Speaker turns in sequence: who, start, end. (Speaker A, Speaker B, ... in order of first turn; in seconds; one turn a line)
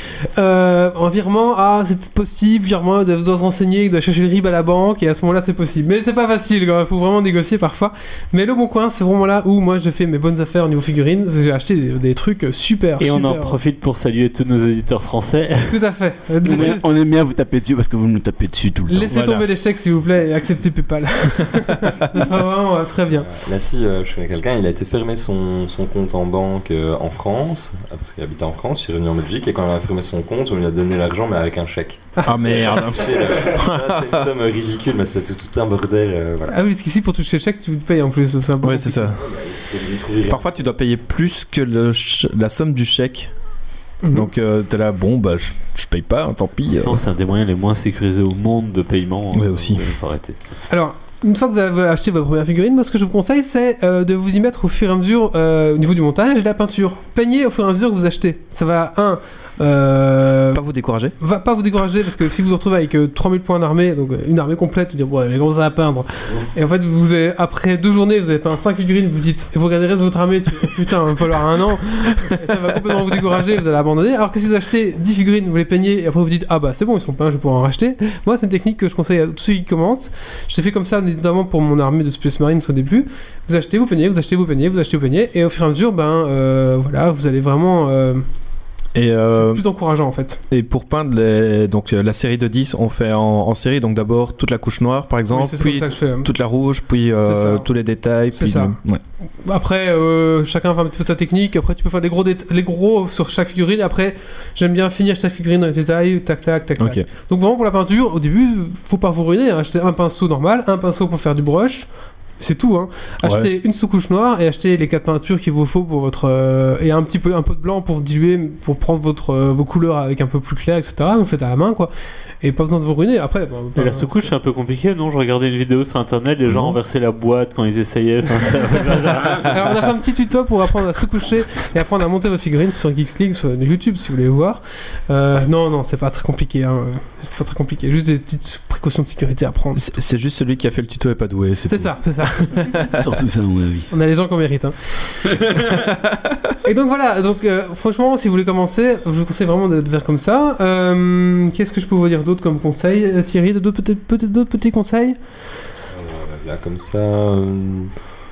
Speaker A: 0.3-13.6
Speaker B: 13.0-15.7
Speaker A: 15.7-16.9
Speaker C: 16.4-19.2
Speaker A: 18.9-23.3
Speaker D: 19.1-19.5
Speaker E: 23.1-36.6
Speaker D: 32.2-34.2
Speaker A: 36.5-39.1
Speaker D: 38.6-39.2
Speaker E: 39.1-40.8
Speaker D: 40.3-43.3
Speaker A: 44.0-44.3
Speaker D: 44.1-47.0
Speaker B: 46.8-50.4
Speaker D: 49.3-49.9
Speaker A: 50.7-60.6
Speaker D: 60.5-61.1
Speaker A: 61.2-88.2
Speaker D: 88.9-89.6
Speaker A: 89.3-90.4
Speaker D: 90.5-99.0
Speaker A: 95.3-96.3
Speaker A: 97.2-97.7
Speaker A: 98.3-98.8
Speaker A: 99.4-111.9
Speaker D: 106.8-107.1
Speaker A: 112.4-121.9
Speaker D: 113.2-113.5
Speaker A: 122.4-124.3
Speaker B: 123.8-129.6
Speaker D: 126.5-126.8
Speaker A: 129.4-139.9
Speaker D: 139.8-142.8
Speaker A: 141.7-142.8
Speaker C: 142.9-143.9
Speaker A: 143.9-144.9
Speaker A: 146.6-155.2
Speaker E: 155.9-157.9